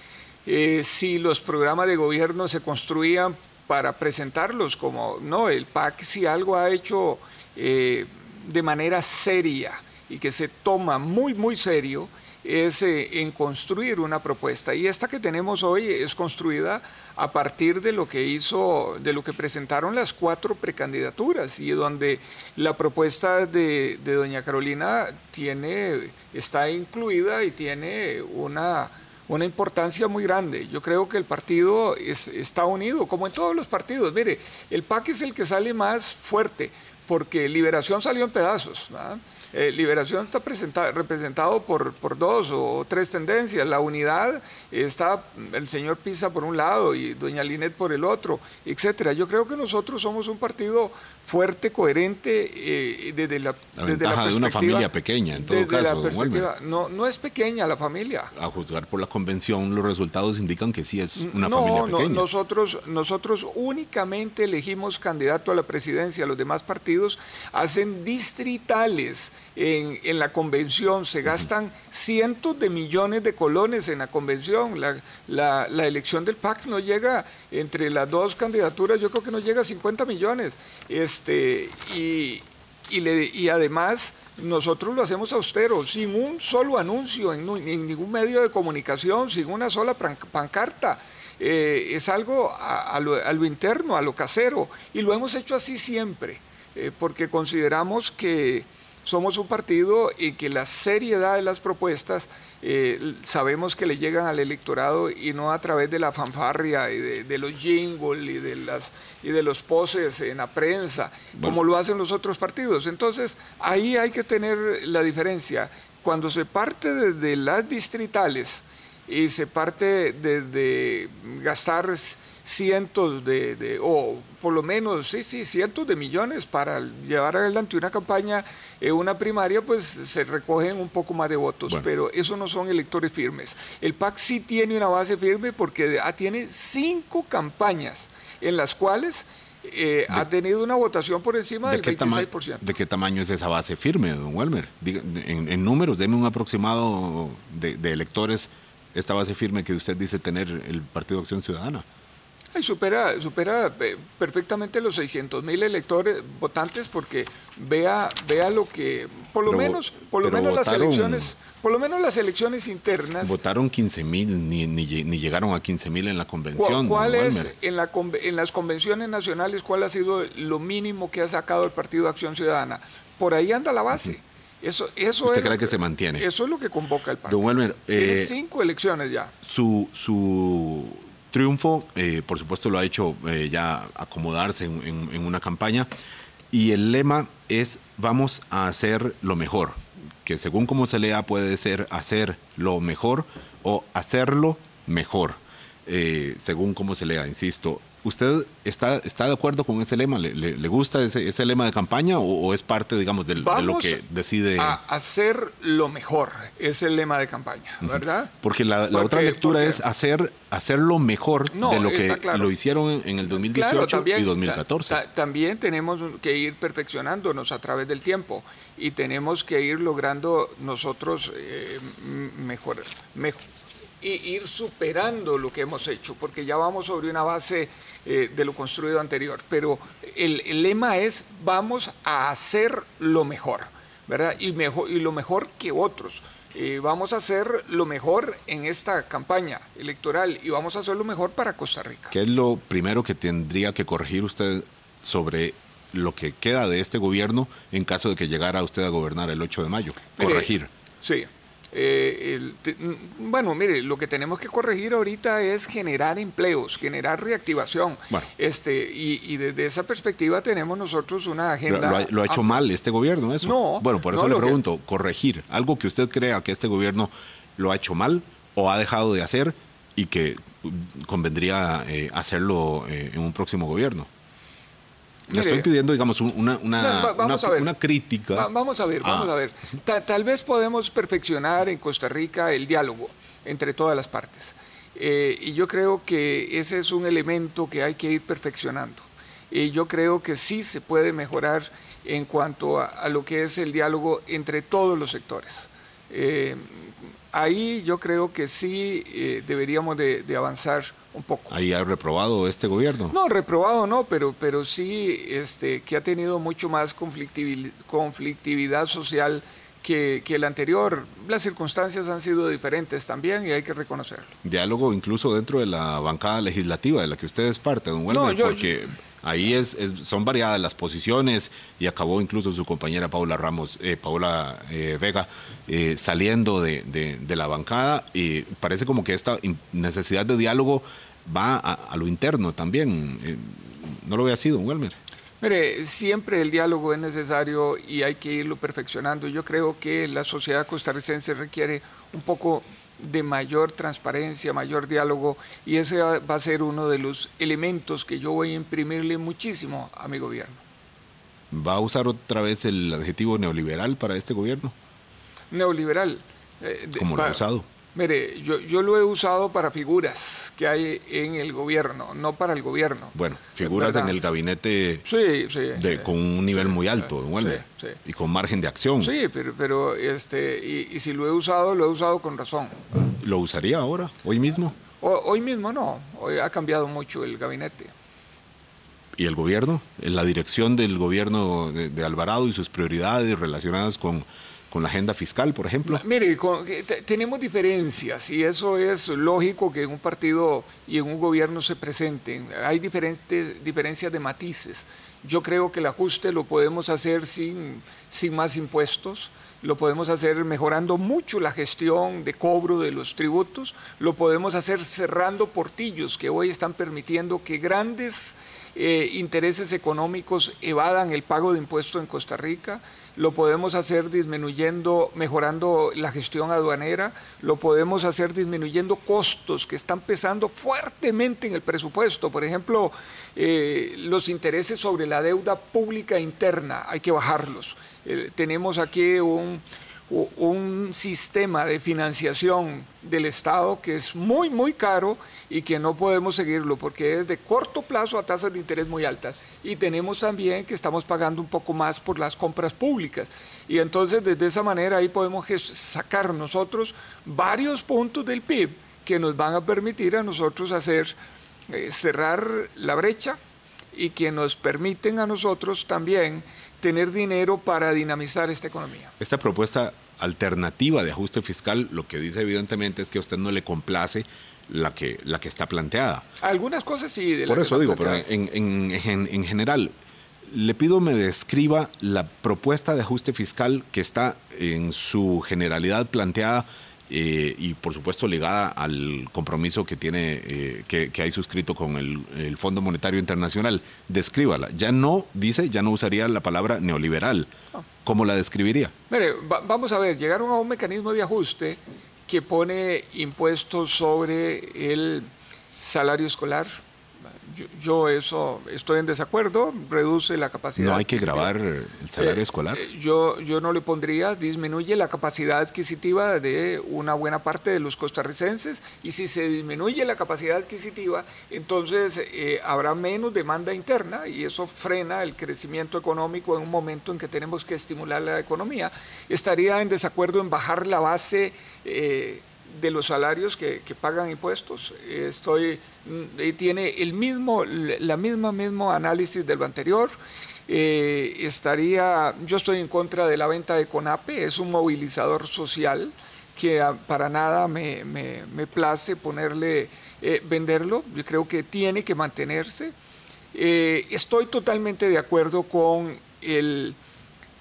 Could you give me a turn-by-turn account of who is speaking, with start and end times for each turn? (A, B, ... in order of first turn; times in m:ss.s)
0:00.4-0:58.3 A
0:53.7-0:56.5 B
0:58.4-1:02.3 B
1:01.2-2:22.6 A
2:21.6-2:31.8 B
2:32.5-2:43.4 A
2:39.4-2:41.3 B
2:43.2-2:47.5 B
2:46.5-2:59.3 A
2:55.2-2:56.2 B
2:57.3-2:58.3 B
2:59.4-3:05.9 B
3:06.5-3:24.8 B
3:23.4-3:24.0 A
3:24.6-3:28.3 A
3:27.9-3:35.0 B
3:28.9-3:29.8 A
3:31.5-3:32.5 A
3:33.3-3:43.4 A
3:44.0-4:02.1 A
4:02.1-4:10.7 B
4:10.2-4:22.6 A
4:21.7-4:34.1 B
4:23.4-4:24.6 A
4:35.3-4:35.7 A
4:35.3-4:38.5 B
4:36.8-4:37.7 A
4:38.3-5:01.5 A
4:39.0-4:39.3 B
5:01.5-5:03.1 B
5:03.1-5:14.3 A
5:14.4-5:35.0 B
5:18.1-5:18.8 A
5:35.4-5:50.6 A
5:51.5-5:54.7 B
5:55.5-6:04.2 A
5:57.0-5:57.6 B
6:03.1-6:05.0 B
6:05.0-6:08.0 A
6:05.8-6:09.1 B
6:09.0-6:13.0 A
6:13.2-6:14.7 B
6:15.0-6:17.9 A
6:19.2-6:26.0 B
6:25.8-7:31.2 A
7:31.7-7:33.4 A
7:33.9-7:39.1 A
7:39.2-7:46.2 B
7:46.4-7:48.3 A
7:47.5-7:49.9 B
7:50.4-8:07.5 B
8:08.0-8:08.9 B
8:09.1-8:15.3 A
8:15.8-8:16.8 A
8:17.4-8:21.5 A
8:20.8-8:22.8 B
8:22.2-9:02.9 A
9:03.5-9:07.0 A